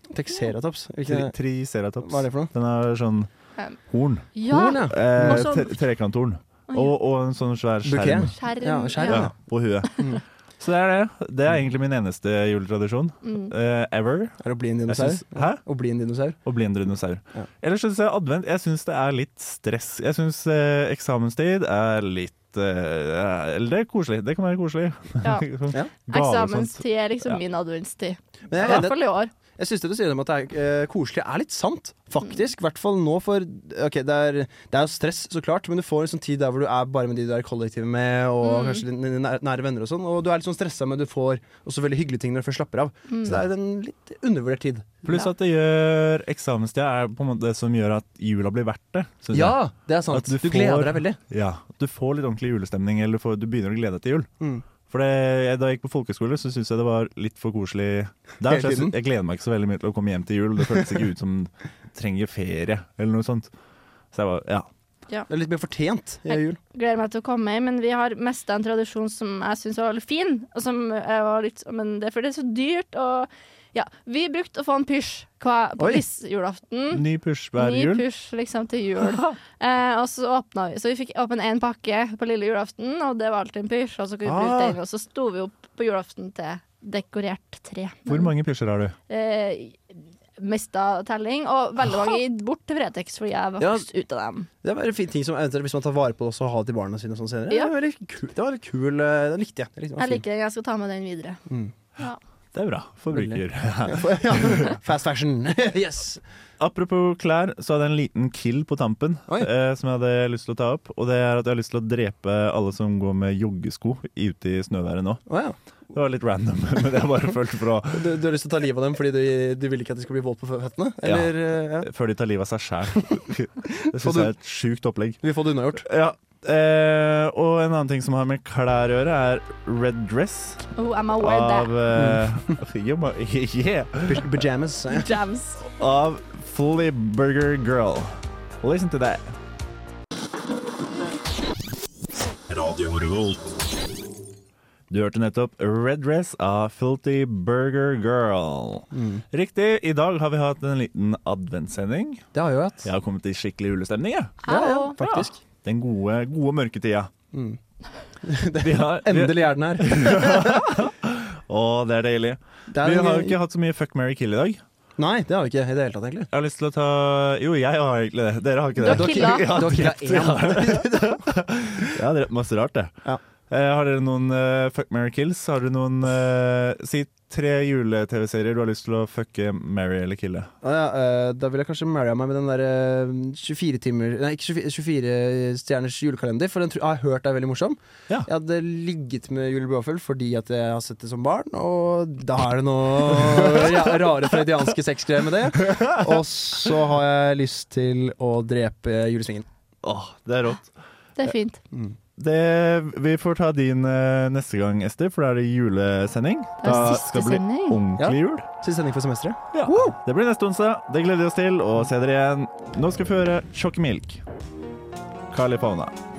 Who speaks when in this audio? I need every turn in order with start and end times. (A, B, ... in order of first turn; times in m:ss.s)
0:00.1-0:01.3 A
0:01.0-0:03.3 B
0:02.0-0:02.5 A
0:03.9-0:08.3 B
0:04.4-0:05.7 C
0:04.5-0:05.6 A
0:07.8-0:09.4 A
0:08.4-0:09.3 C
0:09.0-0:15.6 B
0:13.2-0:13.5 C
0:14.4-0:16.4 A
0:16.4-0:27.4 B
0:25.2-0:25.5 C
0:26.1-0:29.3 C
0:28.5-0:29.0 A
0:29.6-0:45.1 A
0:38.4-0:38.8 C
0:43.1-0:43.3 C
0:45.0-0:49.6 B
0:49.3-0:51.2 A
0:50.1-0:54.3 B
0:54.9-1:03.5 B
0:58.4-0:58.9 A
1:04.1-1:04.7 B
1:05.3-1:06.6 A
1:06.3-1:17.0 C
1:16.9-1:18.0 B
1:17.6-1:28.3 C
1:24.3-1:24.8 A
1:28.1-1:29.0 B
1:29.1-1:29.8 C
1:30.4-1:34.5 C
1:33.6-1:33.9 A
1:34.6-1:40.2 A
1:40.0-1:41.4 C
1:42.5-1:44.8 B
1:43.1-1:46.2 A
1:46.6-1:55.2 B
1:55.3-1:55.6 A
1:55.9-1:58.1 B
1:57.9-2:01.9 A
2:01.0-2:05.2 B
2:03.0-2:04.3 A
2:05.2-2:05.9 A
2:05.8-2:10.6 B
2:10.8-2:11.7 C
2:11.2-2:14.3 B
2:11.9-2:12.6 A
2:14.1-2:15.1 A
2:14.9-2:15.6 C
2:15.6-2:19.3 B
2:22.5-2:23.5 B
2:24.9-2:32.2 B
2:28.9-2:29.2 A
2:32.3-2:32.9 A
2:32.8-2:34.4 B
2:34.4-2:35.3 C
2:34.5-2:35.4 A
2:35.6-2:37.1 B
2:37.3-2:37.6 A
2:38.2-2:40.8 A
2:38.6-2:44.6 B
2:42.7-2:43.4 A
2:45.0-2:46.3 A
2:46.3-2:52.9 B
2:48.8-2:49.5 C
2:48.9-2:51.2 A
2:53.5-3:00.5 B
3:00.6-3:19.5 A
3:13.4-3:13.8 B
3:19.8-3:20.7 B
3:21.2-3:21.6 C
3:22.2-3:28.5 B
3:26.6-3:27.8 C
3:28.0-3:30.0 A
3:29.5-3:34.2 B
3:35.3-3:35.9 B